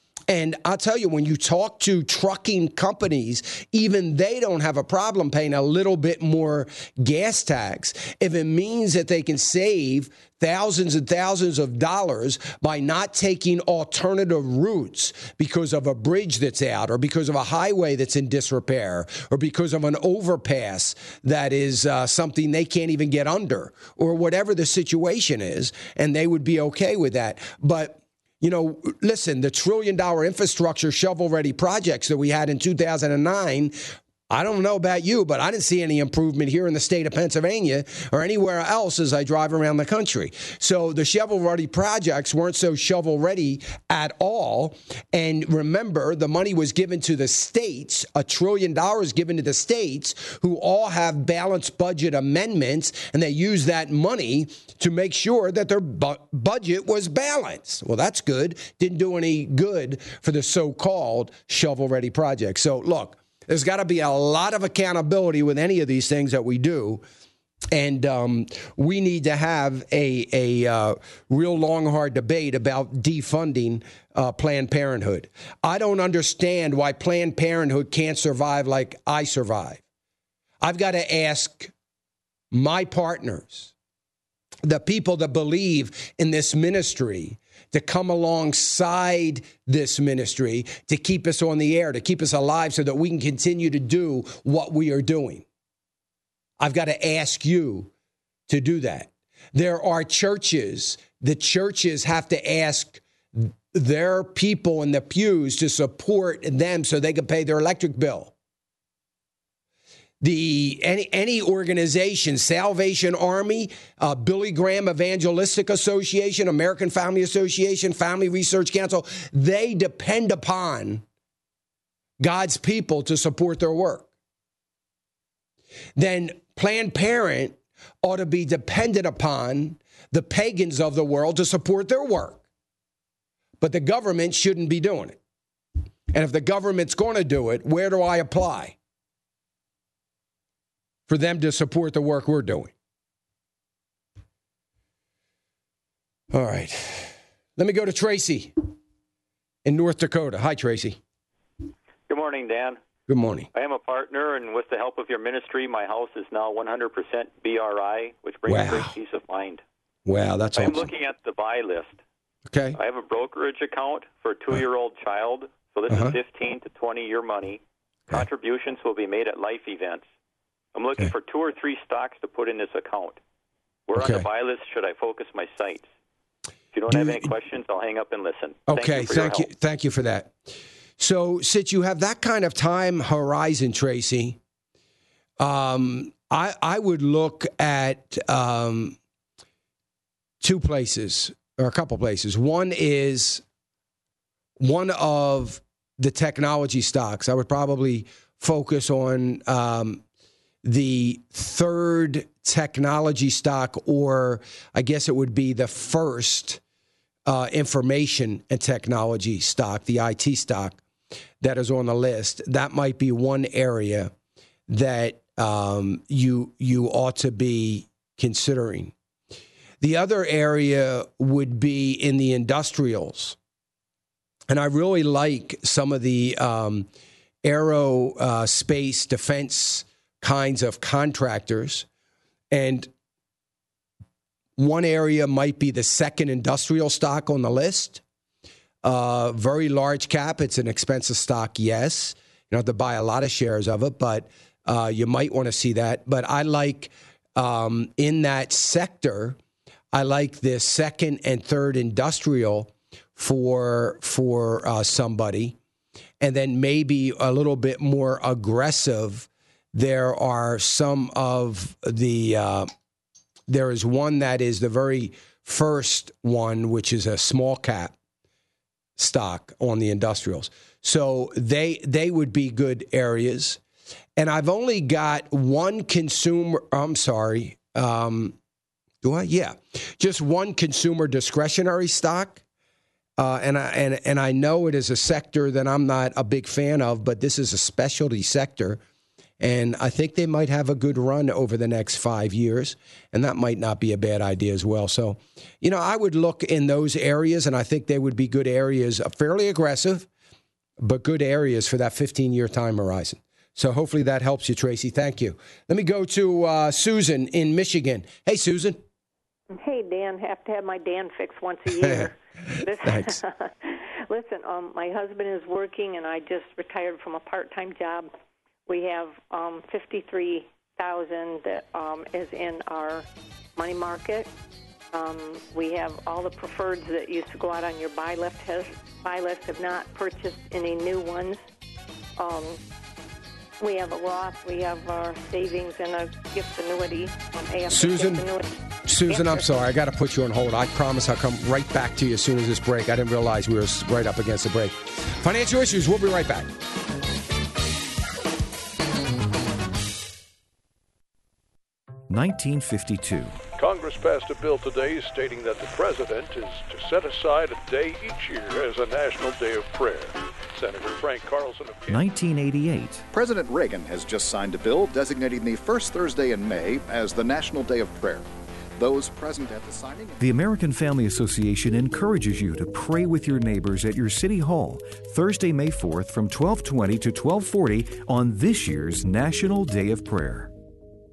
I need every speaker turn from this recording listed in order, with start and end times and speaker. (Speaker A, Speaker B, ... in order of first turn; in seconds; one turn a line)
Speaker A: 0.3-33.7
Speaker A: 34.3-67.0
Speaker A: 67.7-79.8
Speaker A: 80.6-81.7
Speaker A: 82.5-83.7
Speaker A: 84.6-95.5
Speaker A: 96.6-97.9
Speaker A: 98.5-108.3
Speaker A: 110.2-121.0
Speaker A: 122.2-124.1
Speaker A: 126.0-132.4
Speaker A: 133.6-135.2
Speaker A: 136.1-138.8
Speaker A: 141.1-142.7
Speaker A: 146.3-148.5
Speaker A: 149.6-151.0
Speaker B: 152.1-152.8
Speaker A: 153.1-153.5
Speaker B: 153.5-159.6
Speaker A: 158.4-158.9
Speaker A: 160.1-160.9
Speaker B: 160.5-162.0
Speaker A: 162.5-162.8
Speaker B: 162.7-170.1
Speaker A: 165.9-166.2
Speaker B: 170.7-173.2
Speaker B: 173.9-175.9
Speaker A: 173.9-174.3
Speaker B: 176.7-179.5
Speaker A: 176.9-177.3
Speaker A: 178.7-180.3
Speaker A: 181.0-184.4
Speaker A: 185.4-189.0
Speaker A: 190.4-193.4
Speaker A: 194.6-200.0
Speaker A: 200.6-206.6
Speaker A: 207.2-210.8
Speaker A: 211.4-214.1
Speaker A: 214.7-218.9
Speaker A: 219.8-223.4
Speaker A: 224.5-226.9
Speaker A: 227.4-231.8
Speaker A: 232.5-232.9
Speaker A: 234.6-238.0
Speaker A: 238.8-249.4
Speaker A: 249.9-255.6
Speaker A: 256.2-262.7
Speaker A: 263.5-267.9
Speaker A: 269.0-273.6
Speaker A: 274.2-278.4
Speaker A: 279.0-282.4
Speaker A: 283.2-288.8
Speaker A: 289.4-300.1
Speaker A: 300.8-308.8
Speaker C: 309.5-318.1
Speaker A: 311.8-312.1
Speaker A: 312.8-313.2
Speaker C: 318.7-324.3
Speaker C: 324.9-331.4
Speaker C: 332.2-332.6
Speaker C: 333.6-338.5
Speaker A: 337.7-338.2
Speaker A: 338.9-346.5
Speaker C: 339.1-339.4
Speaker D: 352.1-353.4
Speaker E: 353.6-362.0
Speaker D: 361.9-363.0
Speaker F: 363.1-370.2
Speaker D: 370.2-380.5